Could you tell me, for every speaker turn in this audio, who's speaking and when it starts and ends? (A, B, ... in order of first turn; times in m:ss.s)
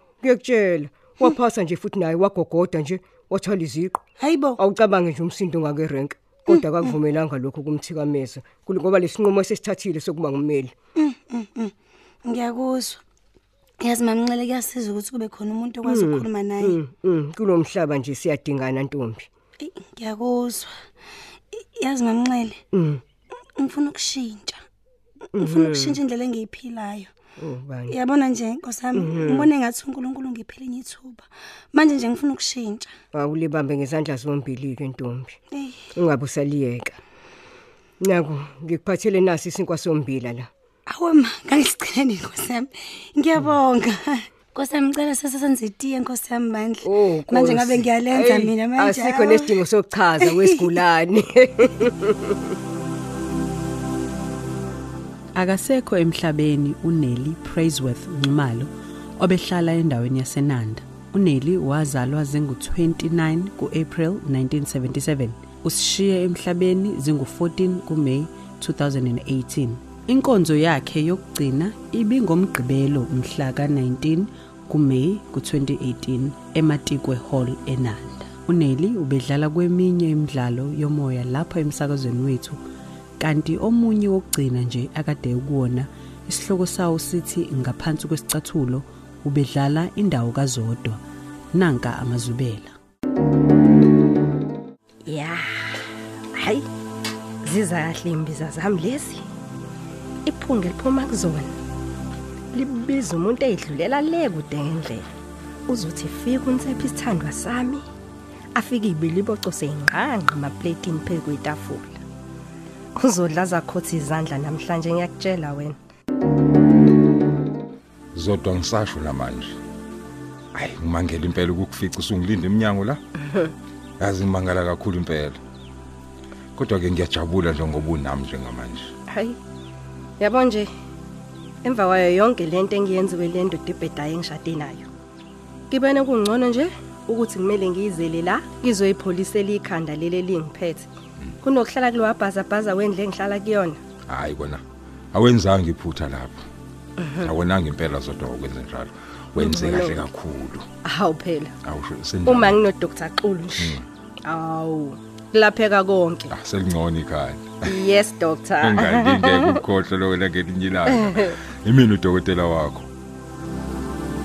0:00.2-0:04.0 A
0:04.2-0:04.6 B
0:04.6-0:10.7 A
0:06.5-0:06.9 B
0:11.0-0:11.7 B
0:12.2-0:13.0 B
0:13.8-0:16.8 B
0:15.8-0:19.3 A
0:19.6-0:20.8 B
0:21.5-0:22.6 B
0:22.7-0:23.0 A
0:23.6-0:24.6 B
0:25.3-0:26.0 A
0:25.4-0:27.1 B
0:27.4-0:28.0 A
0:27.9-0:33.0 B
0:28.9-0:29.5 A
0:33.1-0:35.4 A
0:35.5-0:35.9 B
0:36.0-0:37.0 A
0:38.0-0:40.5 A
0:40.9-0:49.5 B
0:46.8-0:52.1 A
0:55.4-1:22.6 C
1:23.2-1:31.0 C
1:31.5-1:32.7 C
1:35.0-1:35.6 D
1:36.3-1:36.6 D
1:37.4-1:39.2 D
1:40.2-1:41.5 D
1:42.5-1:45.1 D
1:45.7-1:47.8 D
1:48.5-1:52.0 D
1:53.0-1:55.8 D
1:58.1-1:59.6 E
2:00.5-2:03.0 E
2:04.0-2:05.4 E
2:06.6-2:08.9 E
2:09.1-2:09.4 D
2:10.2-2:10.7 D
2:11.6-2:14.9 D
2:15.7-2:20.9 D
2:21.4-2:23.8 D
2:24.1-2:26.4 E
2:27.2-2:30.7 E
2:29.5-2:30.0 D
2:30.8-2:31.5 D
2:31.6-2:32.7 E
2:32.4-2:33.7 D
2:33.5-2:33.8 E
2:34.2-2:36.3 D
2:36.3-2:42.9 E
2:37.7-2:38.8 D